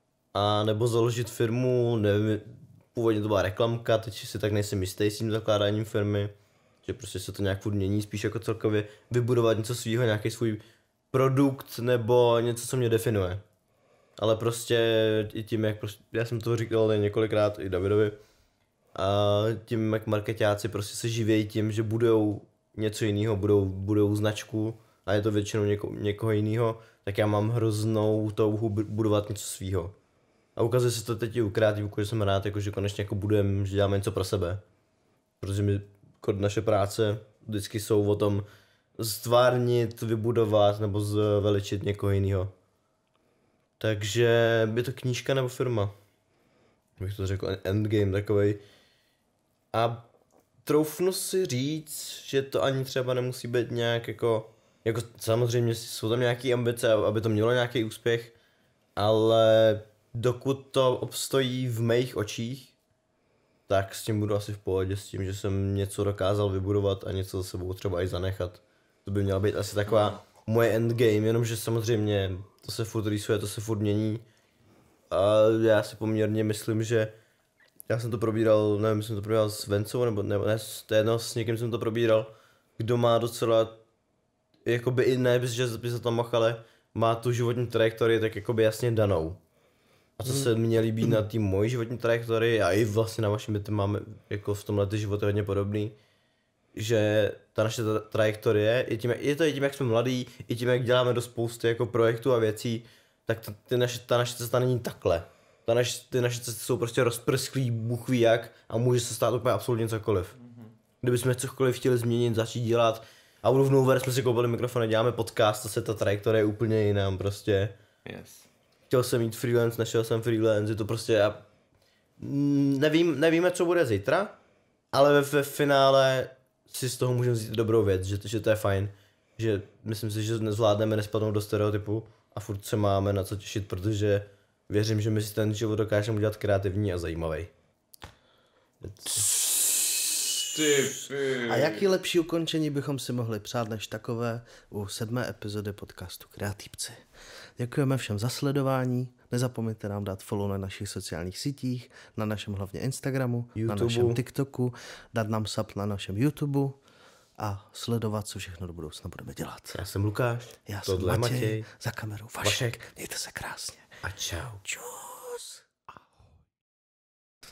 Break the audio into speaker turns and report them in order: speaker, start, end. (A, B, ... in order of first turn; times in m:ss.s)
0:00.3-0:13.4 A
0:14.2-0:18.2 A
0:18.9-0:29.9 A
0:30.6-0:34.6 A
0:35.4-0:38.4 A
0:39.0-0:42.5 A
0:43.8-0:45.9 A
0:47.0-0:48.6 A
0:49.7-0:50.0 A
0:50.6-0:58.3 A
0:59.0-1:02.7 A
1:03.7-1:14.2 A
1:15.1-1:17.1 A
1:17.9-1:23.8 A
1:24.6-1:29.4 A
1:30.2-1:36.0 A
1:36.7-1:50.3 A
1:51.0-1:57.8 A
1:58.0-1:58.4 B
1:58.9-2:01.5 A
2:02.2-2:04.3 A
2:04.9-2:17.5 A
2:18.8-2:19.3 A
2:20.4-2:21.8 B
2:21.5-2:27.0 C
2:27.6-2:36.8 C
2:33.5-2:34.2 A
2:37.4-2:39.8 C
2:39.7-2:41.7 A
2:40.6-2:43.9 C
2:42.4-2:42.8 A
2:44.0-2:44.6 A
2:44.6-2:45.6 C